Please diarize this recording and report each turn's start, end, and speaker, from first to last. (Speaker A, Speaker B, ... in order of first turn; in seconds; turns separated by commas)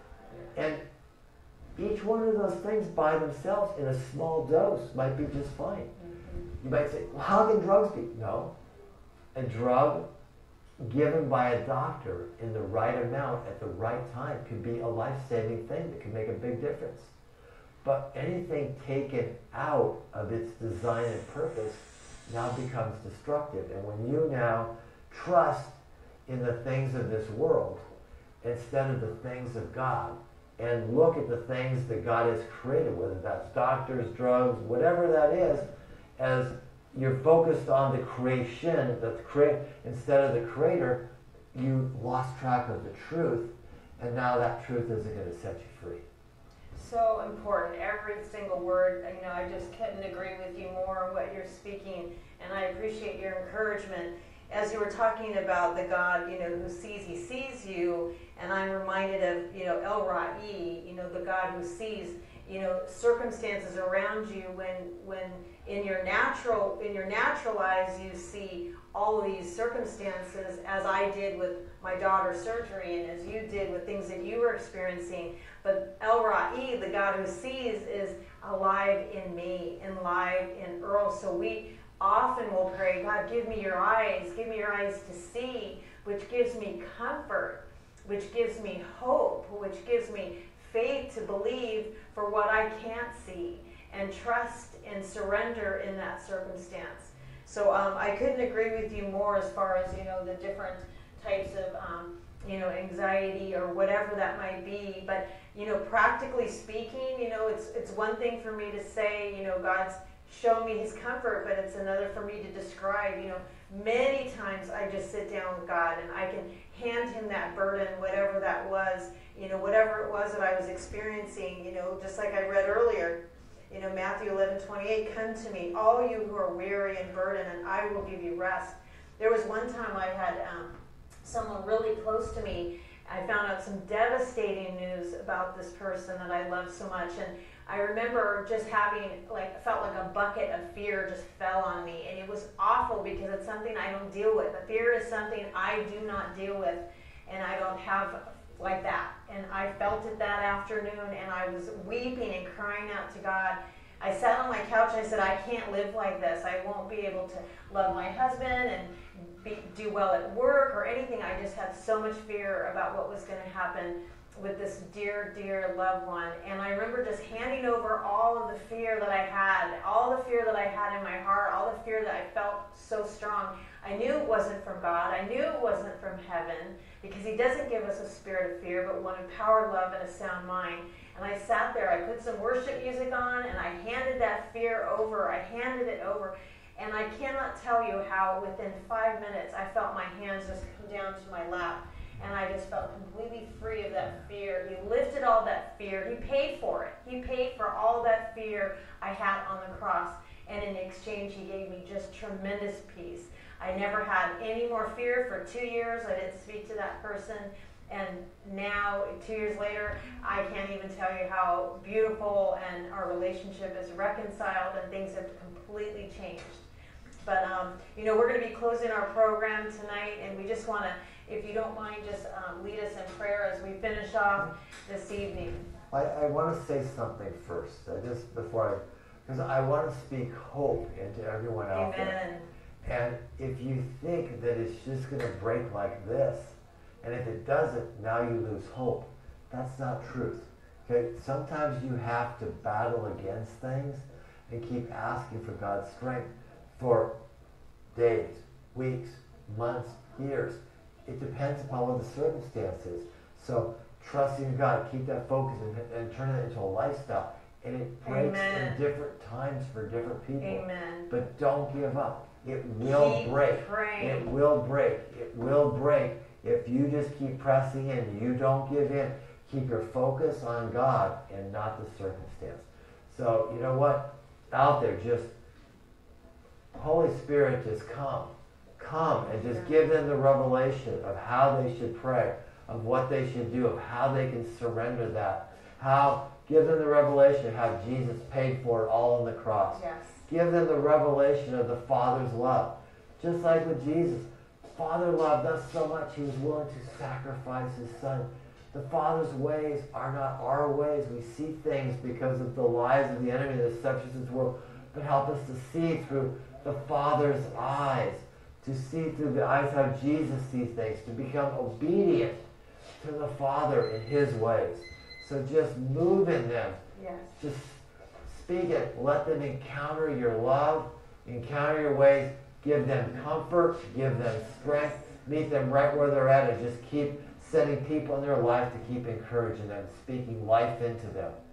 Speaker A: 0.5-0.8, Speaker A: 1.8-5.9, Speaker B: 6.0-6.5, Speaker A: 6.6-8.5, Speaker A: 9.3-10.0, Speaker A: 10.8-17.1, Speaker A: 17.8-27.8, Speaker A: 28.4-41.0, Speaker A: 41.5-46.0, Speaker B: 46.7-130.7, Speaker B: 131.2-216.7, Speaker B: 217.2-225.7, Speaker A: 225.9-232.2, Speaker B: 231.7-232.5, Speaker A: 232.8-247.1, Speaker A: 247.9-275.3, Speaker B: 258.0-258.8, Speaker B: 260.4-261.1, Speaker B: 262.8-264.3, Speaker A: 276.7-312.4, Speaker B: 279.4-279.8, Speaker B: 289.7-290.2, Speaker A: 313.0-316.8, Speaker B: 316.9-317.3, Speaker A: 317.3-331.4